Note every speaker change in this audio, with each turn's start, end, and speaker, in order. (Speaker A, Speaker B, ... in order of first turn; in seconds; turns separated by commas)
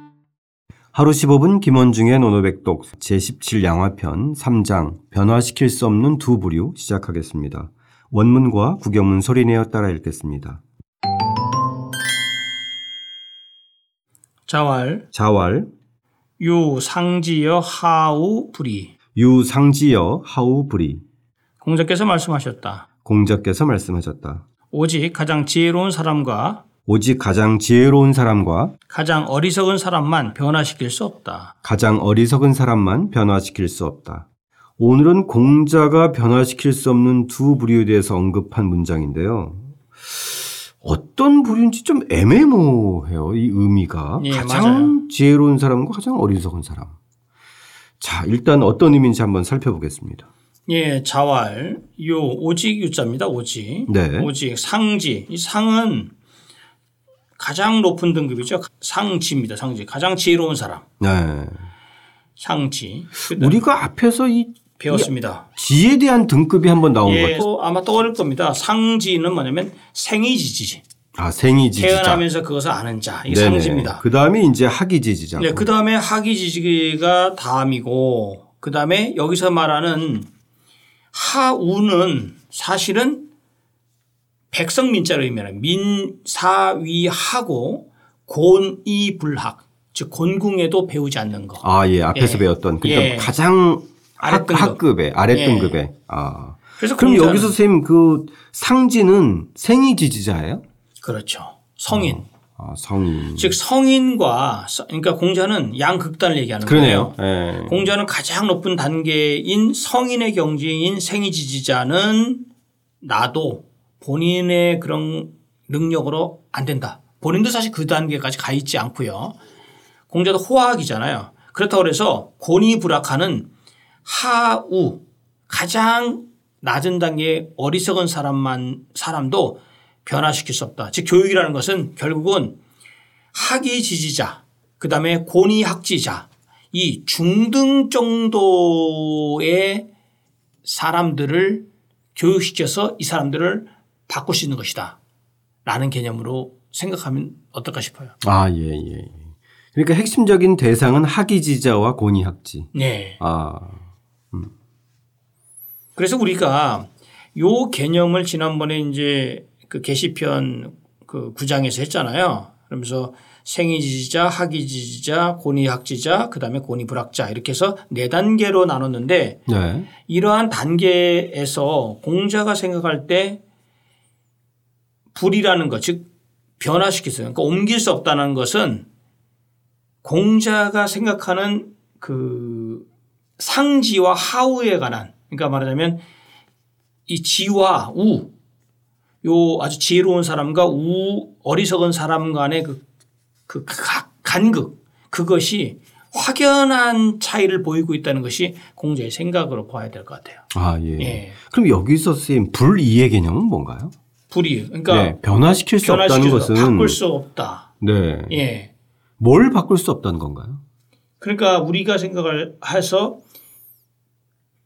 Speaker A: 0.9-10.6, Speaker B: 14.5-15.0, Speaker A: 15.1-15.7, Speaker B: 16.4-18.9, Speaker A: 19.1-21.0, Speaker B: 21.6-22.9, Speaker A: 23.0-24.4, Speaker B: 24.7-26.6, Speaker A: 26.8-28.7, Speaker B: 28.9-31.5, Speaker A: 31.6-34.3, Speaker A: 34.8-47.0, Speaker B: 44.2-44.9, Speaker A: 48.0-50.3, Speaker B: 50.7-56.1, Speaker A: 53.9-54.3, Speaker B: 57.4-60.8, Speaker A: 61.0-61.7, Speaker B: 62.4-63.6, Speaker A: 63.3-67.4, Speaker B: 64.8-65.4, Speaker B: 67.0-70.8, Speaker A: 71.2-72.2, Speaker B: 71.8-74.0, Speaker A: 73.3-75.7, Speaker B: 75.4-80.3, Speaker B: 81.1-83.2, Speaker B: 84.5-93.3, Speaker A: 91.6-100.6, Speaker B: 94.2-94.8, Speaker B: 95.3-95.8, Speaker B: 96.8-97.5, Speaker B: 101.0-102.2, Speaker A: 101.9-103.5, Speaker B: 103.3-112.4, Speaker A: 106.6-107.8, Speaker B: 113.0-119.3, Speaker B: 120.1-123.5, Speaker B: 124.0-132.6, Speaker B: 133.3-139.8, Speaker B: 140.6-141.6, Speaker B: 142.2-145.0, Speaker B: 145.6-148.1, Speaker A: 148.2-154.5, Speaker B: 152.7-153.2, Speaker B: 155.9-169.4, Speaker A: 169.5-169.9, Speaker B: 170.1-173.4, Speaker B: 175.1-176.1, Speaker B: 176.6-178.8, Speaker B: 180.0-182.8, Speaker B: 183.4-186.0, Speaker B: 187.1-188.3, Speaker B: 189.2-192.8, Speaker B: 193.5-200.4, Speaker A: 200.5-203.9, Speaker B: 201.0-201.3, Speaker B: 204.3-205.2, Speaker A: 204.9-207.0, Speaker B: 205.8-207.7, Speaker A: 207.8-208.4, Speaker B: 208.3-208.7, Speaker A: 209.2-210.6, Speaker B: 211.2-213.2